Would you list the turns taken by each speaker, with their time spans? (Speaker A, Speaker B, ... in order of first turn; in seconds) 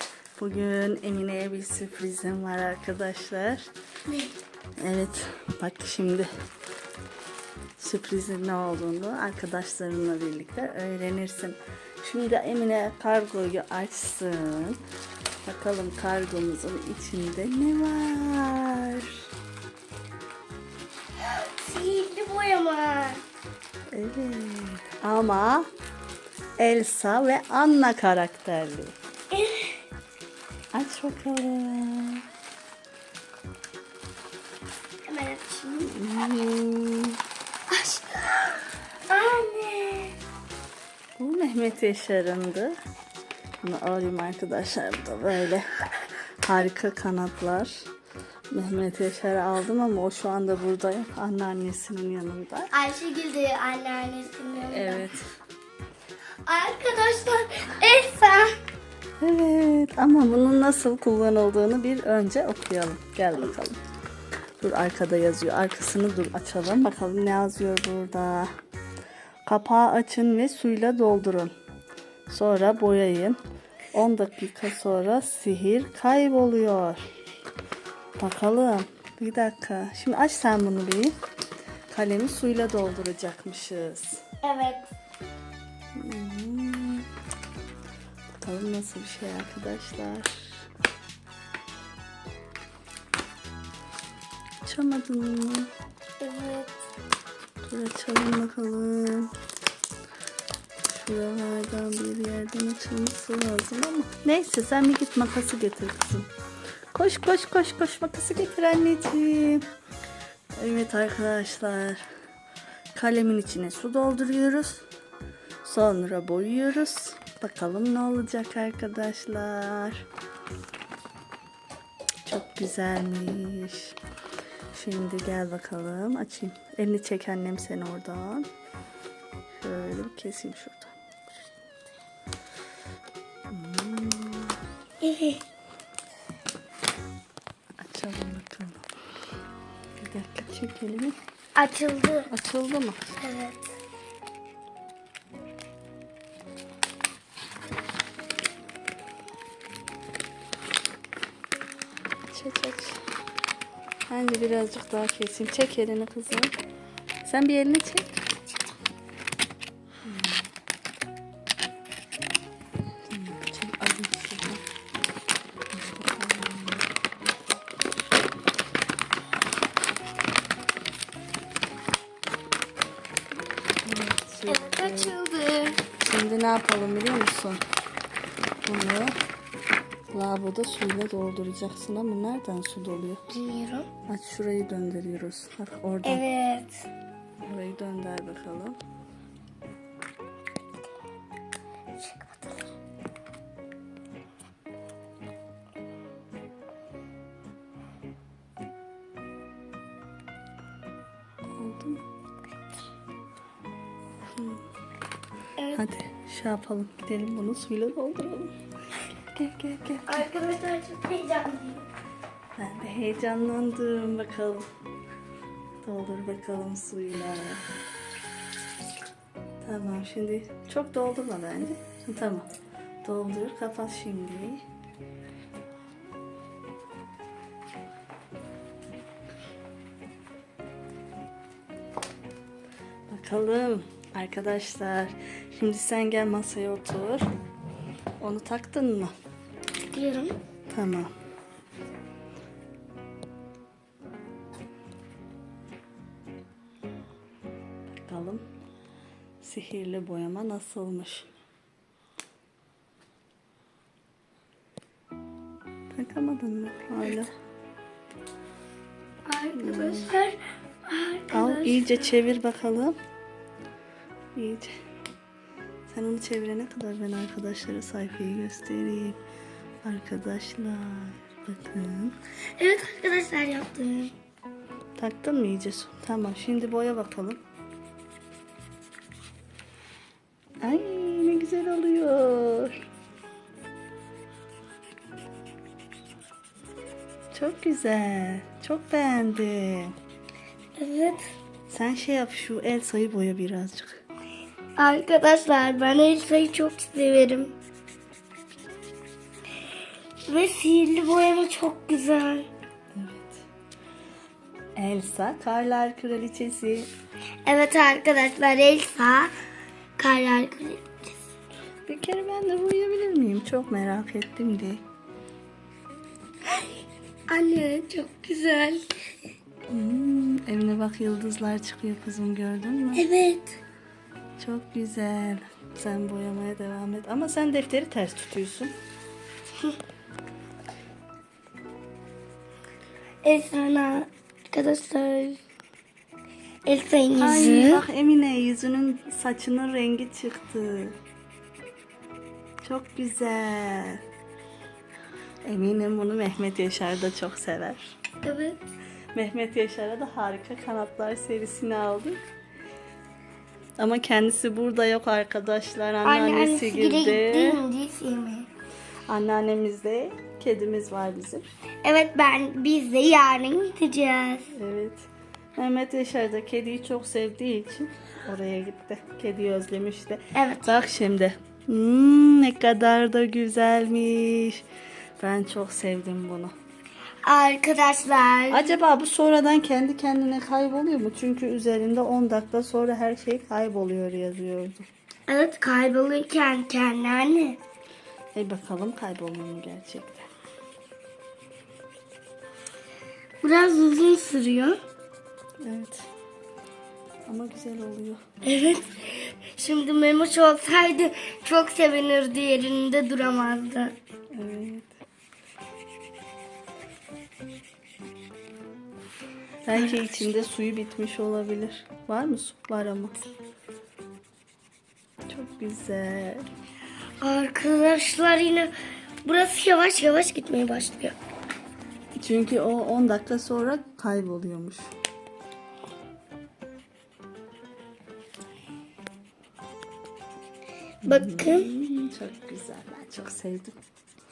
Speaker A: 0.4-3.7, 4.8-6.3, 7.8-14.8, 15.4-19.2, 23.9-25.7, 26.6-28.9, 30.7-32.2, 35.8-37.2, 41.2-42.7, 43.6-45.8, 46.4-47.8, 48.5-52.7, 54.7-55.3, 59.2-63.8, 64.6-68.5, 69.5-71.5, 72.3-73.4, 73.9-77.1, 78.2-81.2, 81.9-84.2, 86.0-87.1, 88.4-90.5, 94.7-95.7, 97.6-99.3, 100.9-106.3, 106.9-109.7, 110.6-112.0, 113.0-114.9, 115.6-120.0, 122.3-124.0, 124.7-128.5, 129.6-130.9, 133.5-134.6, 137.8-138.9, 140.0-141.2, 142.3-143.2, 152.3-153.0, 154.1-156.5, 157.2-158.2, 160.1-160.5, 163.1-164.6, 165.7-166.9, 173.8-175.2, 175.9-177.6, 178.6-179.2, 180.1-183.2, 184.1-186.2, 187.4-188.8, 201.6-202.0, 204.2-204.6, 205.7-208.6, 209.2-210.3, 212.6-214.7, 215.8-217.7, 219.6-222.5, 223.0-224.7, 233.1-237.3, 238.2-239.1, 240.7-241.1, 247.9-248.4, 249.4-251.3, 255.9-257.3, 259.5-260.2, 261.3-263.0, 264.4-264.8, 265.9-269.2, 269.8-272.1, 275.0-277.4, 280.6-282.7, 287.3-289.9, 291.7-294.0, 302.9-303.4, 304.8-306.9, 311.9-314.8, 319.7-323.1, 324.4-328.7, 337.2-341.0, 342.6-344.0, 345.4-347.8, 349.1-352.2, 353.8-357.6, 359.1-361.5, 364.5-374.6, 375.2-376.5, 378.5-384.9, 388.3-390.3, 395.6-396.1, 397.3-398.2, 404.3-405.0, 409.6-413.2, 415.3-416.4, 422.2-424.9, 431.1-433.8
Speaker B: 4.1-4.3, 21.2-23.2, 29.3-29.8, 35.0-36.0, 37.7-40.2, 52.7-55.1, 56.5-58.5, 84.4-84.9, 96.2-96.8, 135.0-135.4, 141.6-142.3, 143.2-143.6, 174.5-175.8, 183.3-183.9, 186.0-186.9, 192.0-192.5, 210.1-211.8, 239.9-240.4, 259.3-262.1, 272.6-274.1, 290.8-291.3, 294.8-297.5, 300.2-302.5, 307.4-309.3, 310.0-311.1, 317.3-318.9, 322.9-323.6, 333.2-335.4, 336.6-337.9, 348.2-348.6, 356.0-358.5, 361.8-364.5, 370.3-370.8, 377.2-378.7, 385.3-387.6, 393.4-394.8, 398.4-403.9, 417.2-418.7, 419.2-421.2, 431.1-431.7